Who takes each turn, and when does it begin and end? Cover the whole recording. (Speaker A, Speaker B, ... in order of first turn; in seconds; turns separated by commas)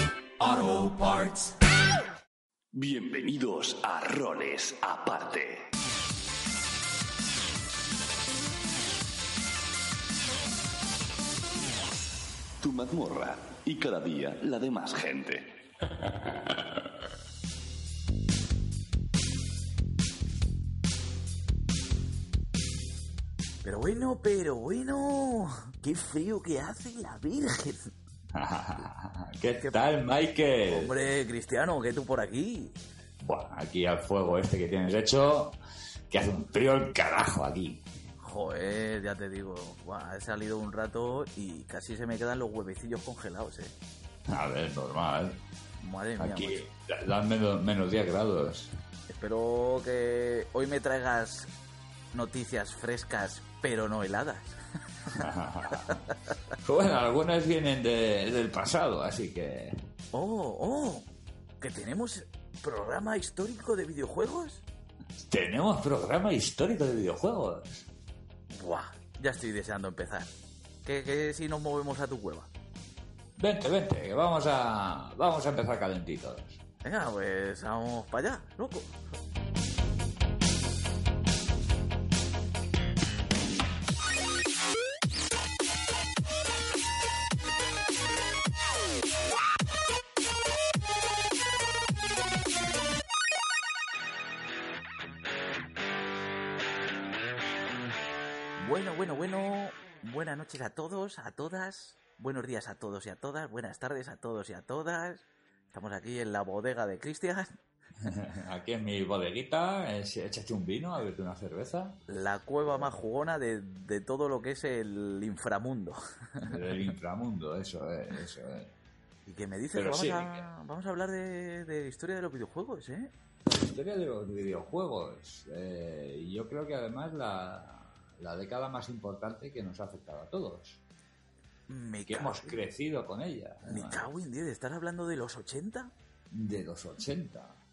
Speaker A: 0.4-1.6, Speaker A: 2.7-5.7, Speaker A: 12.6-15.5, Speaker B: 23.6-27.9, Speaker C: 28.3-30.9, Speaker B: 30.7-32.8, Speaker C: 33.2-35.6, Speaker C: 36.1-37.9, Speaker B: 38.2-43.7, Speaker C: 44.3-45.4, Speaker B: 45.8-46.7, Speaker C: 46.2-48.8, Speaker B: 49.1-51.5, Speaker B: 52.1-56.0, Speaker C: 55.1-56.0, Speaker C: 56.6-59.8, Speaker B: 60.1-61.1, Speaker B: 61.6-64.6, Speaker C: 65.2-67.9, Speaker B: 68.5-70.3, Speaker B: 70.8-72.5, Speaker C: 73.4-76.6, Speaker B: 76.8-79.0, Speaker B: 98.6-107.5, Speaker C: 108.0-112.0, Speaker B: 112.1-116.8, Speaker C: 112.7-112.9, Speaker C: 116.4-118.7, Speaker B: 119.3-123.1, Speaker C: 119.7-120.5, Speaker C: 123.5-130.8, Speaker B: 131.7-132.6, Speaker C: 132.1-134.1, Speaker B: 133.7-135.9, Speaker C: 136.3-137.6